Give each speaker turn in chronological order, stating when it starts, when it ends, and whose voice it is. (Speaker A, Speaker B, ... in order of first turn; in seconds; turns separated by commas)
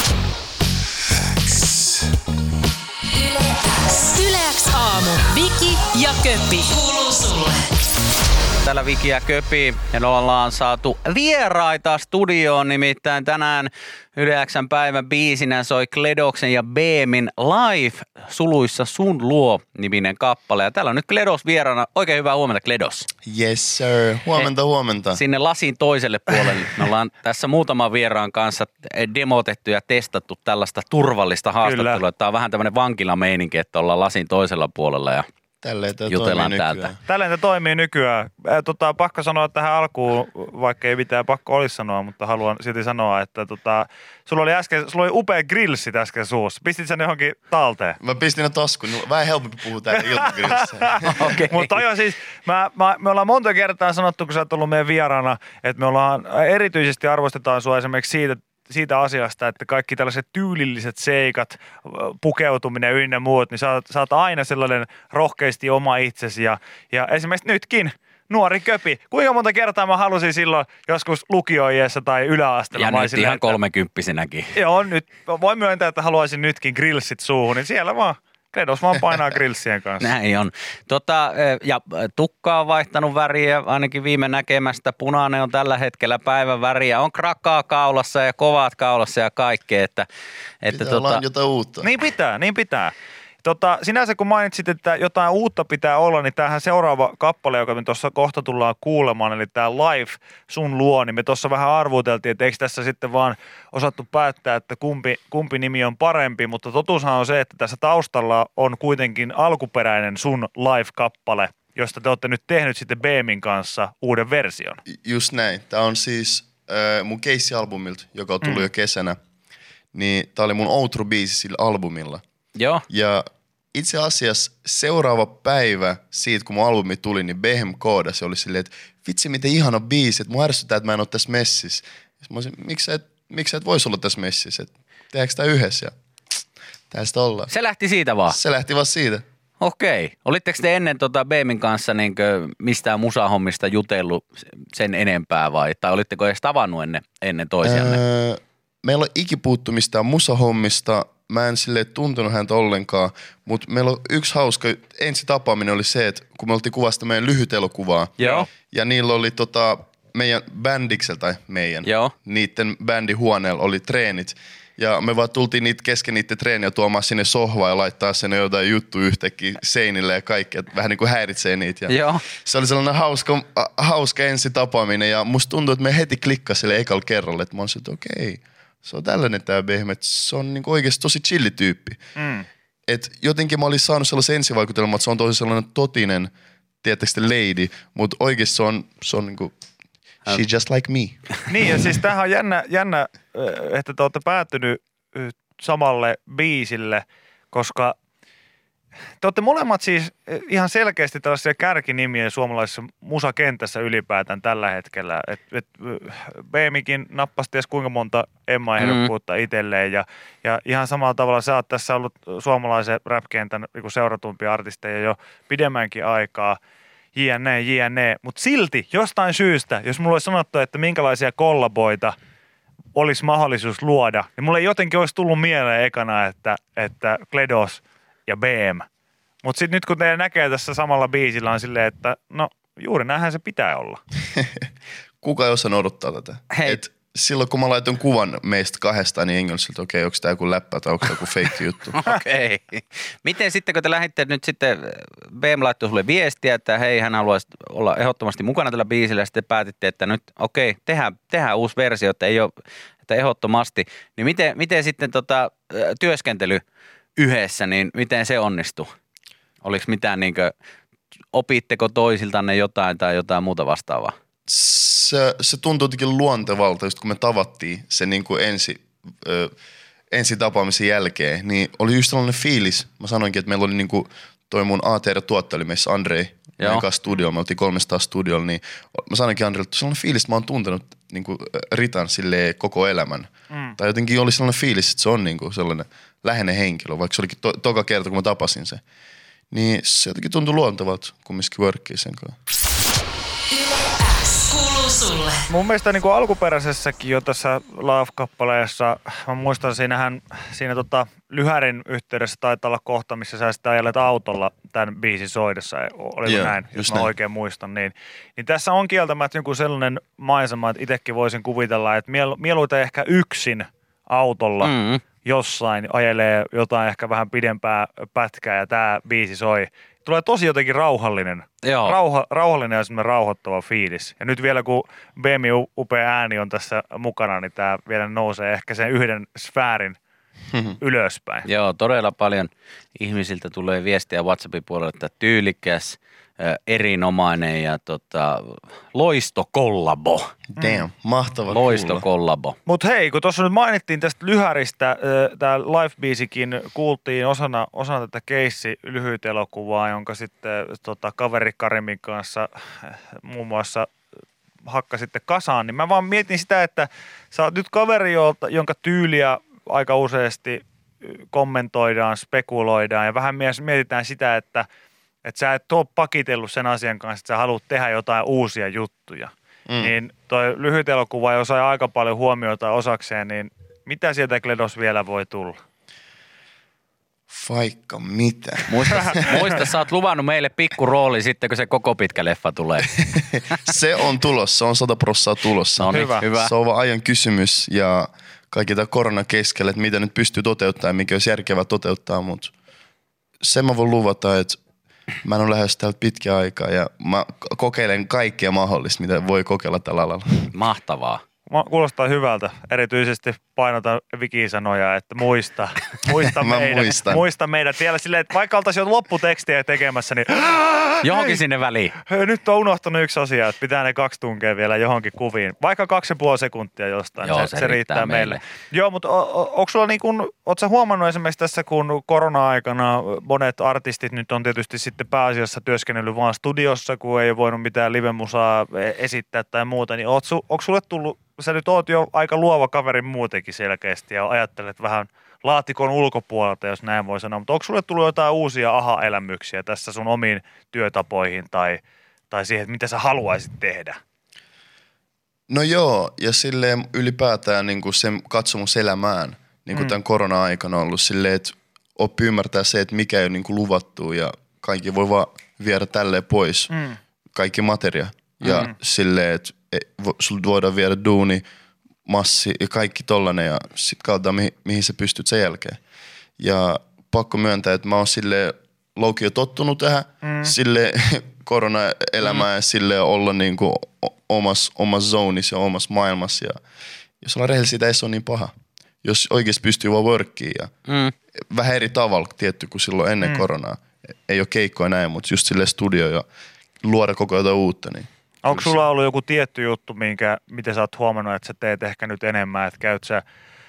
Speaker A: 3.8-7.3, Speaker B: 8.6-23.1, Speaker C: 23.2-25.2, Speaker B: 25.1-35.2, Speaker D: 31.6-32.0, Speaker C: 35.6-37.0, Speaker B: 36.1-36.9, Speaker D: 37.0-48.0, Speaker C: 48.0-51.4, Speaker D: 49.9-73.6, Speaker B: 51.0-51.8, Speaker B: 72.7-74.5, Speaker D: 74.5-80.2, Speaker B: 80.0-90.1, Speaker B: 90.6-91.2, Speaker C: 90.7-91.9, Speaker D: 91.8-114.8, Speaker C: 114.9-119.2, Speaker D: 118.4-118.7, Speaker C: 119.9-122.2, Speaker B: 122.6-122.8, Speaker C: 122.9-135.9, Speaker C: 136.9-137.5, Speaker B: 137.5-138.4, Speaker C: 138.3-139.2, Speaker B: 139.6-148.0, Speaker C: 147.6-182.0, Speaker B: 158.2-158.5, Speaker B: 161.8-162.1, Speaker B: 171.9-172.2, Speaker D: 182.2-182.5, Speaker C: 182.9-186.3, Speaker C: 186.8-189.5, Speaker C: 190.3-191.9, Speaker D: 191.5-197.9, Speaker D: 199.2-216.6, Speaker B: 208.8-209.1, Speaker D: 217.2-222.2, Speaker D: 222.9-228.8, Speaker D: 229.4-234.0, Speaker C: 234.3-234.7, Speaker C: 235.2-242.0, Speaker B: 236.5-236.8, Speaker B: 241.9-252.5, Speaker B: 253.1-256.6, Speaker B: 257.2-258.9, Speaker B: 259.6-260.6, Speaker B: 261.3-264.1, Speaker C: 264.5-269.5, Speaker C: 270.1-288.8, Speaker B: 276.6-276.9, Speaker D: 283.5-283.8, Speaker C: 289.5-292.4, Speaker D: 295.4-330.0, Speaker C: 306.2-307.1, Speaker B: 314.6-315.0, Speaker B: 321.6-322.0, Speaker D: 330.8-331.5, Speaker B: 331.4-340.3, Speaker D: 340.6-340.9, Speaker C: 340.6-342.1, Speaker B: 341.5-342.6, Speaker D: 342.7-353.9, Speaker D: 354.6-364.7, Speaker D: 365.2-375.6, Speaker C: 369.7-369.9, Speaker C: 377.3-379.4, Speaker B: 378.7-383.0, Speaker D: 378.9-379.5, Speaker C: 382.9-392.5, Speaker B: 385.8-386.5, Speaker D: 385.9-386.3, Speaker C: 393.4-394.6, Speaker C: 395.2-400.5, Speaker B: 400.5-401.2, Speaker D: 401.5-411.4, Speaker C: 406.4-407.2, Speaker B: 411.0-412.0, Speaker D: 412.0-444.0, Speaker B: 417.2-418.4, Speaker C: 445.5-456.7, Speaker D: 449.7-450.0, Speaker D: 456.7-457.0, Speaker C: 457.4-461.4, Speaker B: 458.4-458.7, Speaker C: 462.1-465.8, Speaker C: 466.4-476.6, Speaker D: 470.2-470.6, Speaker C: 477.2-478.5, Speaker C: 479.0-480.7, Speaker B: 480.9-481.1, Speaker C: 481.5-486.2, Speaker D: 483.2-483.5, Speaker C: 486.8-488.8, Speaker D: 488.4-493.2